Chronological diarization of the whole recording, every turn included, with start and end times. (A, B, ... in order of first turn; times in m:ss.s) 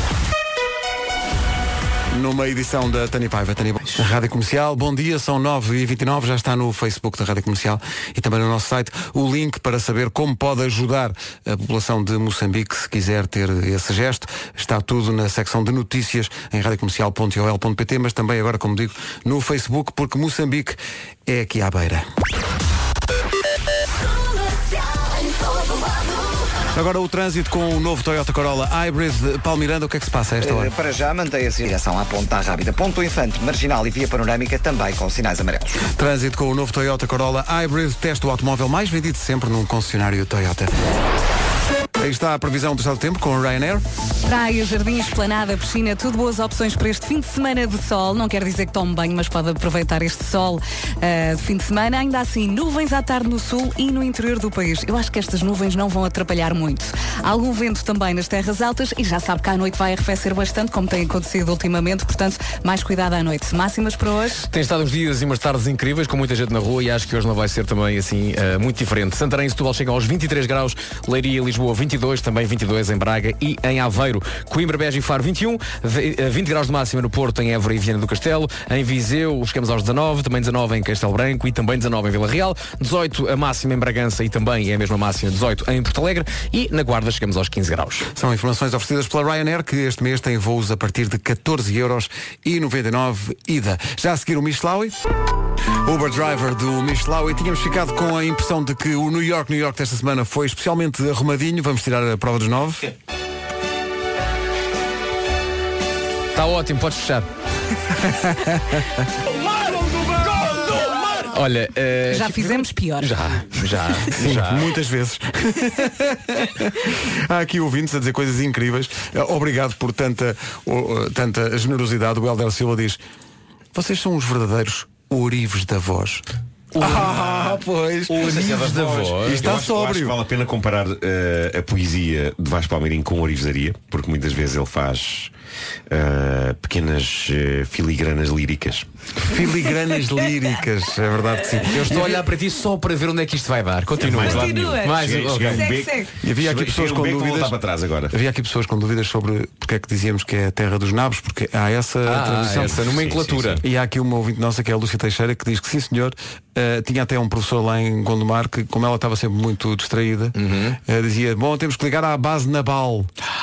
0:02.1-0:22.1 A
0:26.7-0:30.7 A
0:30.4-0:35.8 B
0:35.9-0:40.7 A
0:42.0-0:43.8 A
0:44.2-1:04.5 C
1:04.5-1:28.1 D
1:28.1-1:35.0 A
1:35.8-1:42.9 A
1:46.3-1:47.3 D
1:48.0-1:48.8 A
1:49.3-1:54.7 D
1:52.1-1:53.2 C
1:54.1-2:03.0 A
2:03.7-2:10.2 A
2:06.7-2:09.5 D
2:08.2-2:15.3 E
2:15.9-2:18.9 E
2:19.2-2:22.2 A
2:21.7-2:25.7 D
2:24.0-2:28.1 E
2:24.1-2:26.1 C
2:26.2-2:27.6 A
2:28.1-2:32.8 A
2:32.1-2:33.6 D
2:32.8-2:33.6 E
2:33.6-2:43.1 A
2:40.4-2:40.8 D